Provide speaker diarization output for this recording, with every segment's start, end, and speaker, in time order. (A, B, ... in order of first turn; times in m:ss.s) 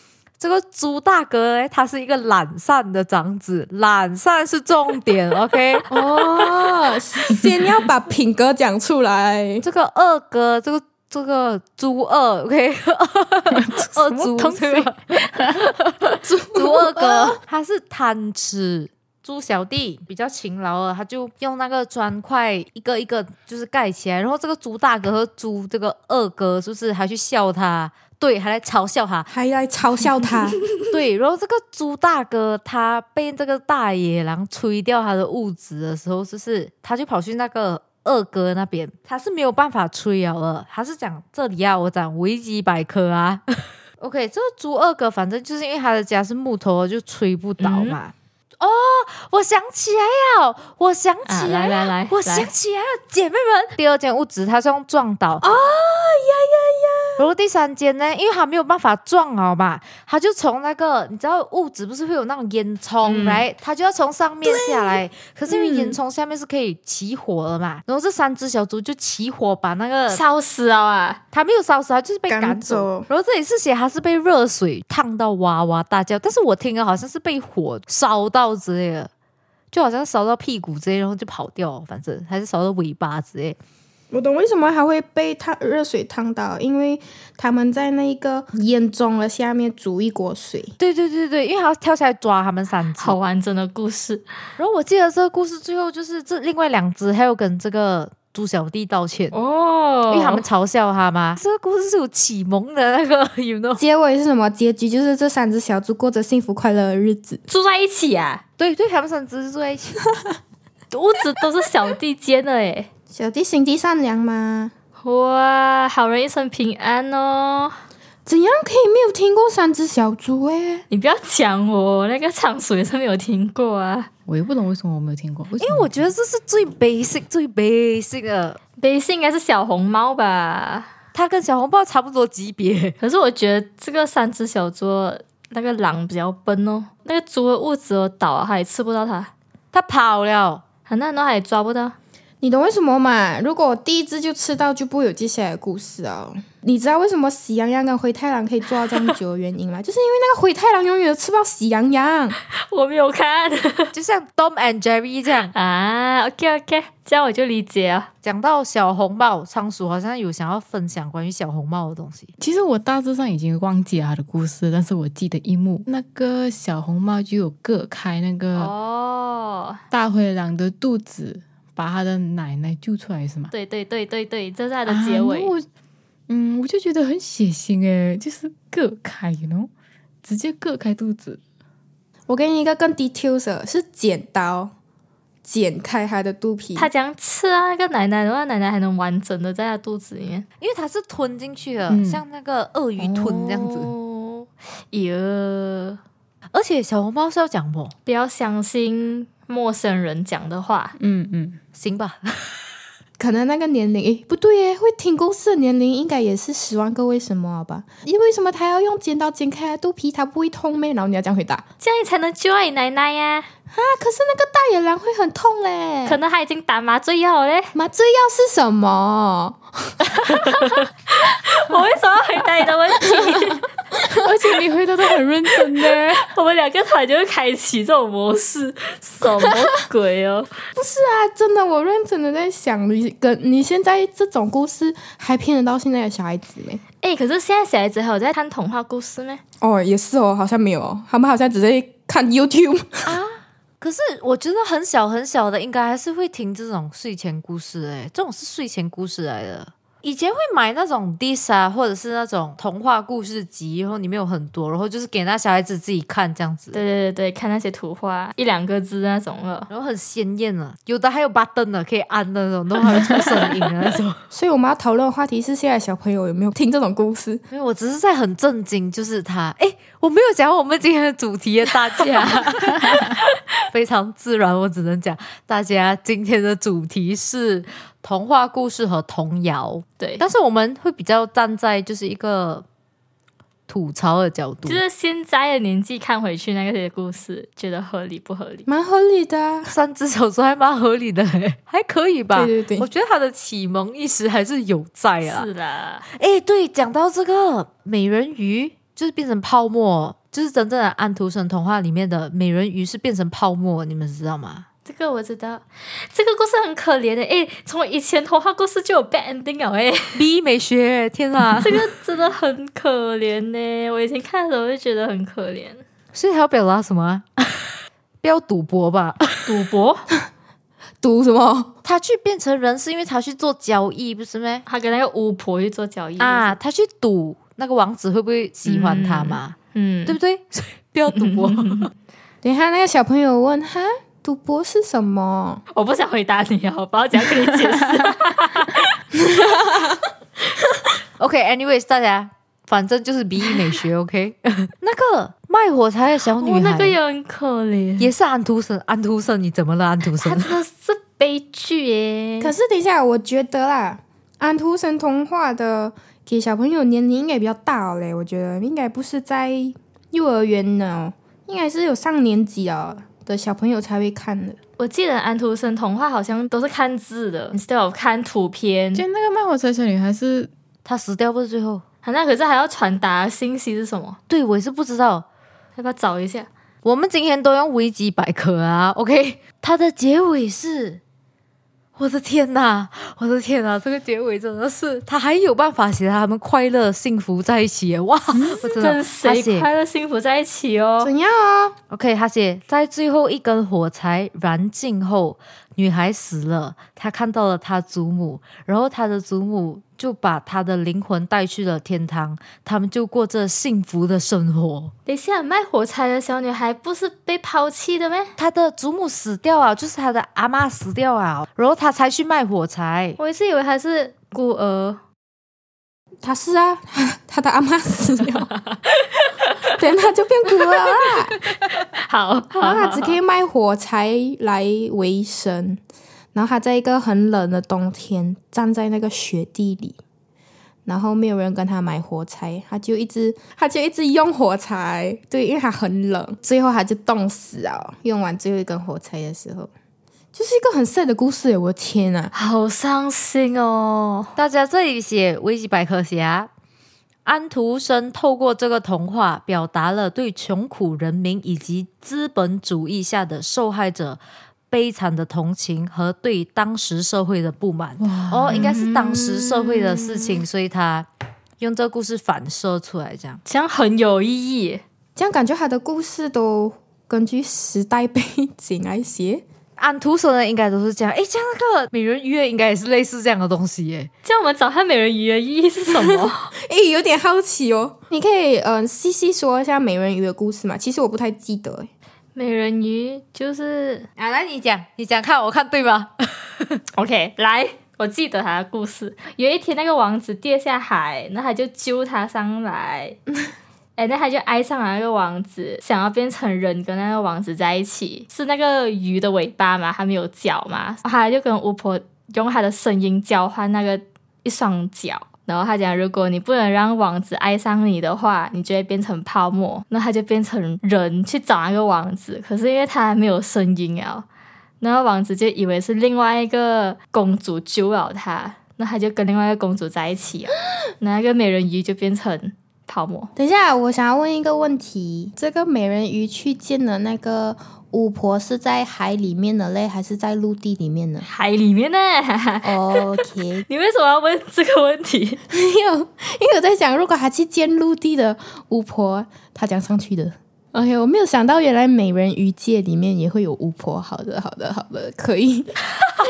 0:00.4-0:05.9 A
0:05.9-0:09.6 B
0:09.6-0:29.3 A
0:13.5-0:14.9 C
0:16.2-0:17.4 B
0:29.3-0:30.6 B
0:30.8-0:55.4 A
0:47.6-0:48.0 D
0:51.3-0:52.5 D
0:55.4-0:57.3 B
0:57.2-1:10.2 A
1:03.0-1:03.4 D
1:04.4-1:06.0 B
1:10.1-1:11.2 D
1:11.3-1:19.1 A
1:12.3-1:13.1 B
1:19.7-1:23.6 A
1:24.1-1:30.8 B
1:30.8-1:33.2 A
1:33.0-1:34.2 D
1:34.6-1:39.4 A
1:39.3-1:40.4 D
1:40.1-1:43.8 A
1:43.8-1:47.4 B
1:47.5-1:48.4 D
1:48.6-1:50.0 A
1:50.9-1:52.9 D
1:53.1-1:54.7 B
1:55.0-1:57.8 D
1:58.3-2:00.8 B
2:00.9-2:04.1 D
2:04.3-2:06.0 C
2:05.6-2:08.6 A
2:08.8-2:10.9 D
2:11.1-2:13.0 A
2:13.0-2:19.3 D
2:19.7-2:20.6 A
2:20.9-2:22.0 D
2:22.4-2:32.4 B
2:32.7-2:33.9 D
2:33.9-2:35.5 A
2:35.5-2:38.1 D
2:38.2-2:42.3 A
2:42.4-2:48.7 C
2:48.6-2:49.8 D
2:49.9-2:53.5 C
2:53.5-2:55.5 D
2:54.9-2:55.7 C
2:56.3-2:59.7 C
3:00.2-3:01.4 C
3:02.3-3:04.7 B
3:05.4-3:06.9 B
3:06.8-3:10.4 D
3:10.6-3:13.9 A
3:11.9-3:12.2 C
3:13.0-3:16.0 D
3:16.5-3:17.9 A
3:18.1-3:21.0 D
3:21.0-3:21.6 C
3:21.8-3:22.5 A
3:23.2-3:31.6 B
3:31.8-3:33.5 D
3:33.7-3:36.2 B
3:36.0-3:37.7 D
3:37.8-3:40.0 B
3:40.2-3:43.6 D
3:44.1-3:46.3 C
3:45.8-3:50.5 D
3:50.8-3:56.8 B
3:57.0-3:59.4 D
3:59.6-4:03.1 B
4:03.1-4:16.8 A
4:16.7-4:19.7 D
4:19.7-4:24.2 A
4:24.3-4:27.4 B
4:27.5-4:33.1 A
4:32.2-4:33.4 D
4:33.7-4:42.6 A
4:43.7-4:44.8 A
4:44.7-4:48.7 D
4:48.7-4:49.7 B
4:49.7-4:55.5 A
4:52.3-4:52.9 B
4:55.2-4:56.1 D
4:56.1-5:04.7 A
5:04.9-5:10.2 D
5:10.1-5:11.8 A
5:11.6-5:15.8 D
5:16.1-5:19.5 A
5:19.5-5:20.1 D
5:21.0-5:21.7 B
5:21.8-5:24.6 A
5:24.7-5:26.6 D
5:26.2-5:29.6 A
5:28.7-5:30.2 D
5:30.1-5:31.8 A
5:31.1-5:31.9 D
5:32.4-5:35.6 B
5:35.7-5:38.9 D
5:41.2-5:47.0 A
5:46.3-5:48.1 D
5:48.0-5:50.6 A
5:50.2-5:52.5 D
5:52.4-6:04.6 B
6:04.8-6:09.0 D
6:08.9-6:10.5 C
6:10.8-6:11.8 A
6:12.0-6:14.2 D
6:14.3-6:15.3 A
6:15.8-6:16.5 D
6:16.8-6:21.0 A
6:22.0-6:29.7 A
6:28.3-6:28.6 C
6:28.6-6:31.1 D
6:31.0-6:31.8 B
6:31.9-6:44.9 A
6:45.1-6:48.3 D
6:48.4-6:53.2 A
6:53.2-6:55.0 D
6:56.2-6:58.5 B
6:58.7-6:59.7 D
6:59.7-7:01.4 B
7:01.5-7:03.2 D
7:02.6-7:05.8 B
7:06.3-7:10.0 B
7:10.9-7:19.7 B
7:20.3-7:22.3 B
7:22.3-7:24.3 D
7:24.4-7:26.5 A
7:27.2-7:41.1 A
7:38.0-7:39.6 C
7:38.5-7:38.8 D
7:39.8-7:40.3 D
7:41.6-7:43.4 A
7:43.4-7:44.8 D
7:45.2-7:49.4 B
7:49.8-7:54.1 A
7:54.2-7:56.5 D
7:55.9-8:01.9 B
8:02.4-8:04.1 D
8:04.2-8:06.8 A
8:07.0-8:13.2 D
8:14.0-8:34.2 D
8:34.8-8:43.3 D
8:43.4-8:51.3 B
8:51.2-8:55.4 D
8:52.6-8:53.6 B
8:55.5-9:05.7 B